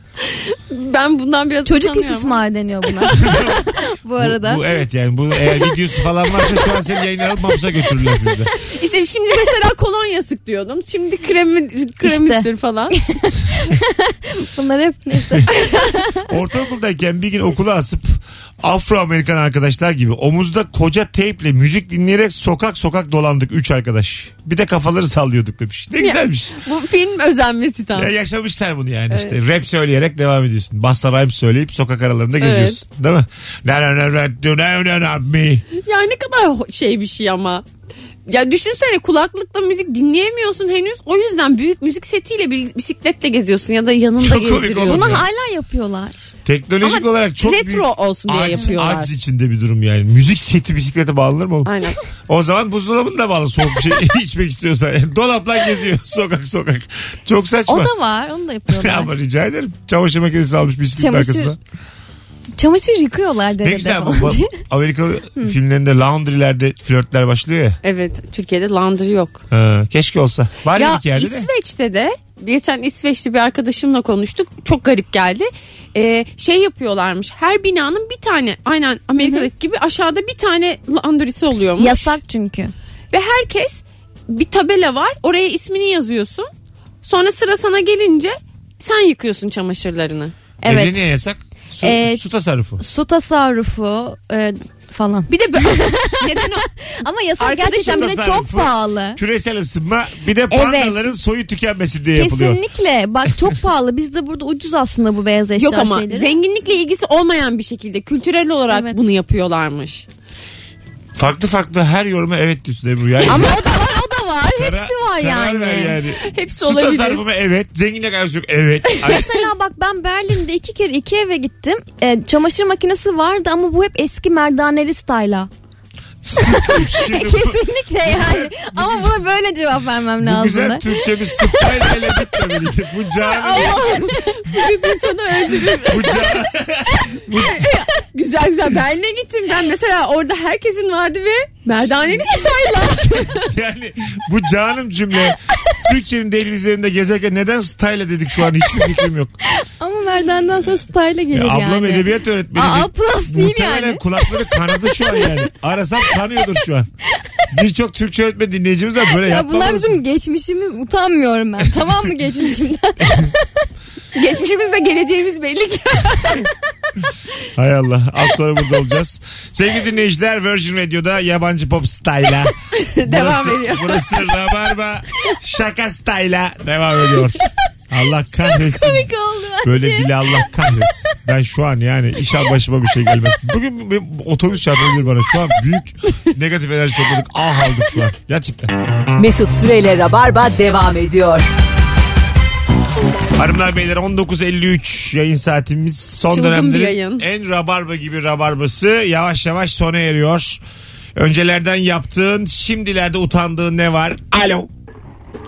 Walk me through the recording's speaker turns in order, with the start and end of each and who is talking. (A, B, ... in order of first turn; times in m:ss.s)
0:00.2-0:02.4 A
0:01.7-0:04.6 B
0:03.0-0:03.4 A
0:03.2-0:03.6 C
0:04.2-0:08.5 C
0:08.8-0:13.0 A
0:12.0-0:16.2 B
0:15.5-0:15.8 A
0:16.3-0:26.6 C
0:26.0-0:28.1 A
0:28.0-0:35.7 C
0:29.1-0:29.4 A
0:32.4-0:32.8 A
0:35.8-0:37.6 A
0:38.3-0:45.2 A
0:44.2-0:45.3 C
0:44.9-0:46.2 B
0:46.4-0:57.9 C
0:46.8-0:49.1 A
0:51.7-0:52.0 A
0:57.7-0:59.1 B
0:58.7-1:01.6 C
1:01.0-1:01.6 B
1:02.6-1:04.6 B
1:03.6-1:07.8 C
1:07.8-1:09.4 A
1:09.5-1:11.5 C
1:10.8-1:22.2 A
1:19.2-1:19.5 B
1:21.8-1:22.7 B
1:23.1-1:26.5 A
1:27.0-1:30.3 A
1:30.6-1:32.8 C
1:30.6-1:30.9 B
1:31.8-1:32.2 B
1:32.8-1:39.2 B
1:35.3-1:36.7 A
1:37.4-1:38.2 A
1:37.9-1:42.6 C
1:40.5-1:41.0 B
1:42.1-1:46.4 B
1:45.6-1:50.1 A
1:48.7-1:49.0 B
1:51.2-1:53.5 C
1:53.3-1:56.0 B
1:54.6-1:59.4 C
1:56.2-1:57.2 A
1:59.0-2:05.5 B
2:06.2-2:09.2 C
2:06.7-2:10.9 B
2:10.2-2:13.8 C
2:11.5-2:12.2 B
2:13.2-2:16.2 A
2:15.9-2:17.7 C
2:17.3-2:23.4 A
2:23.3-2:29.4 C
2:29.8-2:34.3 B
2:31.3-2:36.9 C
2:37.5-2:40.0 C
2:39.2-2:43.4 B
2:43.0-2:43.3 C
2:44.2-2:46.5 A
2:47.6-2:59.1 C
2:52.8-2:54.1 A
2:58.3-3:00.6 B
2:59.6-3:08.7 C
3:09.2-3:11.5 D
3:13.4-3:20.6 C
3:16.3-3:17.2 A
3:21.2-3:24.7 C